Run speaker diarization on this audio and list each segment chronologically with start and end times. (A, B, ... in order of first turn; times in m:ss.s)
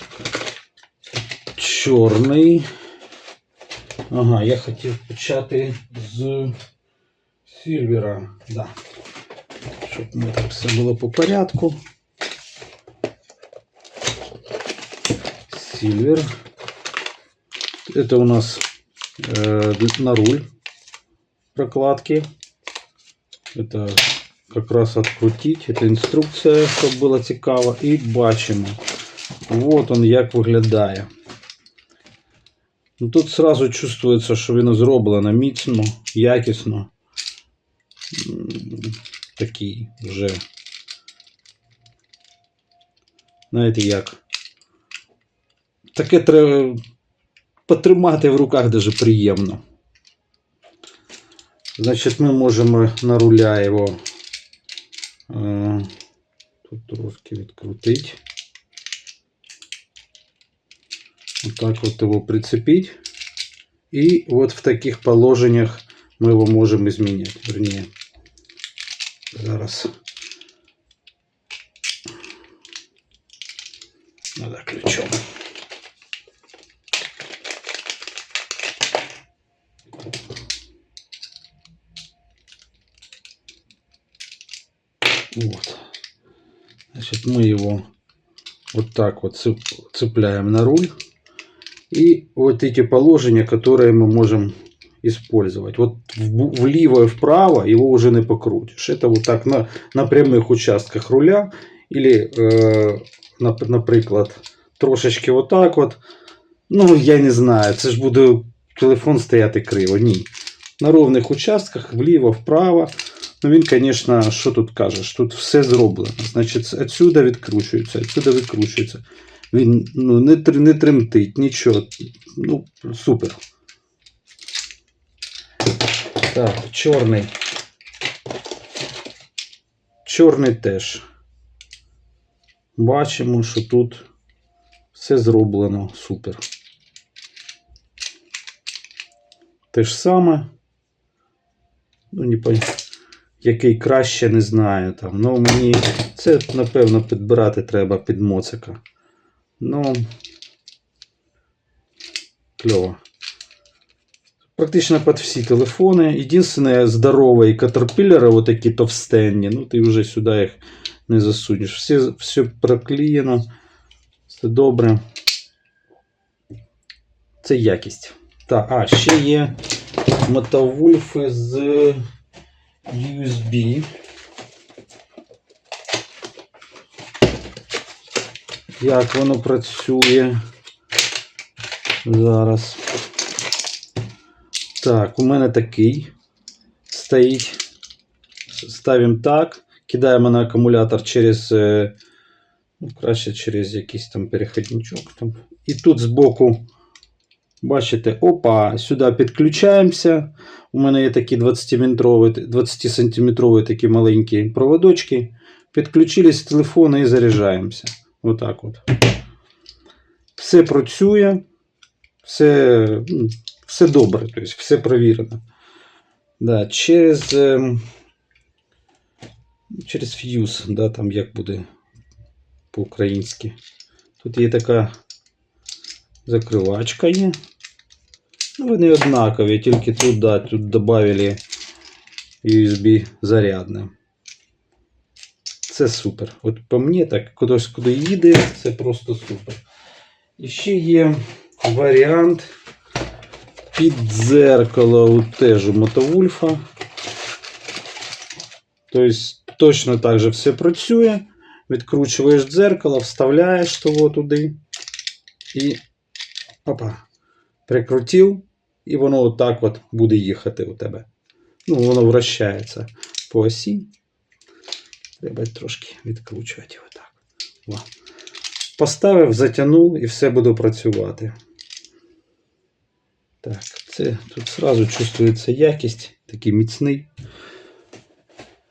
0:01.5-0:02.6 A
0:04.1-0:06.6 A
0:07.4-0:08.8 A
0:09.8-0:11.8 A
0:15.5-0:16.2 A
0:17.9-0:18.6 A
0:19.2-0:20.4 A
0:21.5-0:22.3 A
0:23.5-0:28.8 A
0:29.5-0:31.1 A
0:33.0-0:36.9 A
0:38.1-0:40.4 A
0:43.5-0:44.2 A
0:45.9-0:46.8 A
0:47.7-0:49.6 A
0:51.8-0:54.0 A
0:55.3-0:55.9 A
0:56.6-0:58.2 A
1:01.4-1:02.9 A
1:03.9-1:07.9 A
1:09.3-1:09.9 A
1:14.4-1:15.2 A
1:25.3-1:25.8 A
1:26.9-1:27.8 A
1:28.7-1:30.9 A
1:31.9-1:46.0 A
1:46.7-2:03.4 A
2:06.2-2:07.3 A
2:10.0-2:11.0 A
2:12.8-2:14.0 A
2:14.9-2:16.4 A
2:19.7-2:20.5 A
2:22.1-2:22.7 A
2:23.4-2:28.8 A
2:29.6-2:30.1 A
2:32.6-2:33.0 A
2:34.6-2:43.5 A
2:44.3-2:45.0 A
2:47.4-2:49.6 A
2:50.2-2:52.0 A
2:52.9-2:53.9 A
2:58.8-3:00.4 A
3:02.0-3:02.8 A
3:04.8-3:06.1 A
3:06.9-3:07.6 A
3:08.5-3:11.9 A
3:12.8-3:16.6 A
3:17.6-3:28.8 A
3:30.4-3:31.4 A
3:32.2-3:35.4 A
3:36.4-3:37.8 A
3:39.7-3:41.6 A
3:42.7-3:43.5 A
3:44.2-3:44.9 A
3:46.2-3:47.4 A
3:48.6-3:51.4 A
3:52.4-3:53.9 A
3:55.7-3:59.6 A
4:00.4-4:02.5 A
4:03.7-4:06.6 A
4:08.9-4:14.6 A
4:15.5-4:15.8 A
4:16.6-4:17.0 A
4:17.7-4:21.0 A
4:21.6-4:23.9 A
4:25.2-4:27.8 A
4:28.8-4:31.3 A
4:33.4-4:37.1 A